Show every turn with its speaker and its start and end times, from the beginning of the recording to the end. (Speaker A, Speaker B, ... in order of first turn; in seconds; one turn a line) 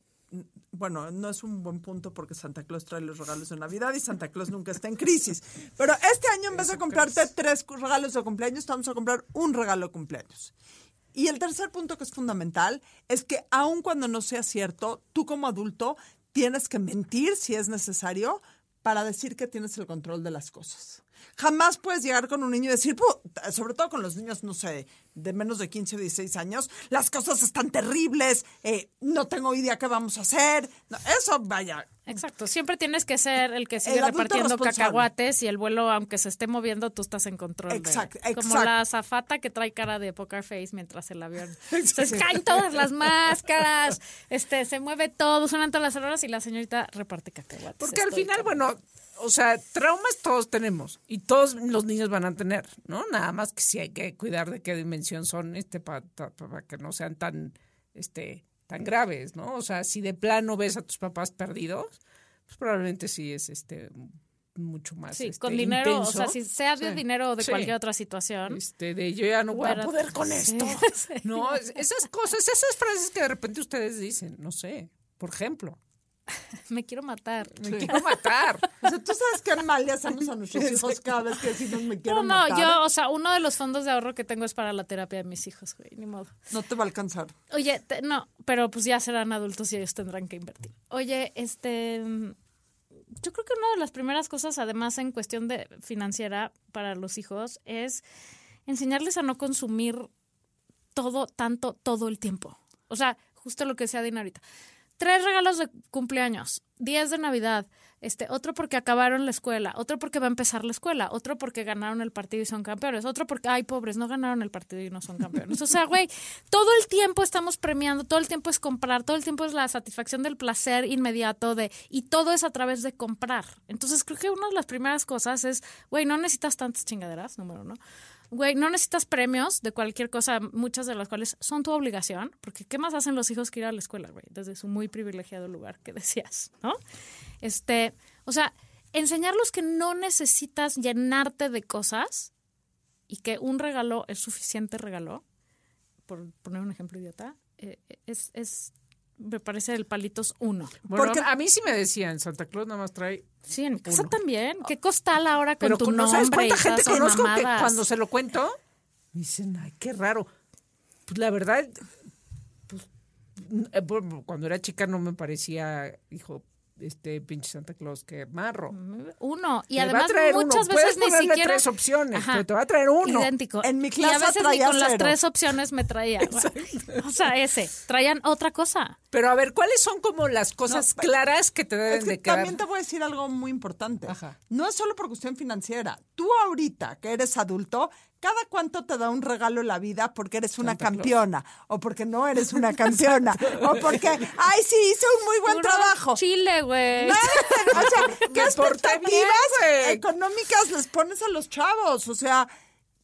Speaker A: 0.3-10.5
Speaker B: 6.6-7.2
Speaker A: 11.1-32.2
Speaker C: 32.1-48.6
Speaker A: 33.8-35.1
Speaker A: 37.7-38.7
Speaker A: 41.7-42.4
Speaker B: 47.8-62.0
Speaker B: 62.5-67.7
Speaker C: 65.1-68.6
Speaker B: 68.5-75.8
Speaker C: 69.6-71.7
Speaker C: 76.7-78.2
Speaker B: 77.6-78.6
Speaker A: 78.8-82.8
Speaker C: 82.0-86.3
Speaker A: 86.5-87.3
Speaker C: 87.5-92.4
Speaker C: 93.2-98.0
Speaker C: 98.7-100.1
Speaker C: 101.0-104.4
Speaker C: 105.0-127.8
Speaker C: 128.3-136.8
Speaker C: 137.4-142.3
Speaker C: 143.1-145.2
Speaker C: 146.1-151.2
Speaker B: 150.9-153.3
Speaker C: 153.5-157.8
Speaker B: 153.8-154.1
Speaker B: 155.6-158.6
Speaker B: 159.1-160.3
Speaker B: 161.1-161.9
Speaker B: 163.4-168.7
Speaker C: 168.7-172.4
Speaker B: 169.8-173.3
Speaker C: 173.0-179.0
Speaker A: 173.6-175.2
Speaker B: 176.2-177.0
Speaker B: 179.1-182.6
Speaker A: 180.7-181.1
Speaker A: 181.9-196.2
Speaker B: 184.1-184.4
Speaker B: 190.6-191.1
Speaker B: 193.6-194.1
Speaker C: 195.5-198.3
Speaker A: 197.0-202.5
Speaker B: 197.2-200.0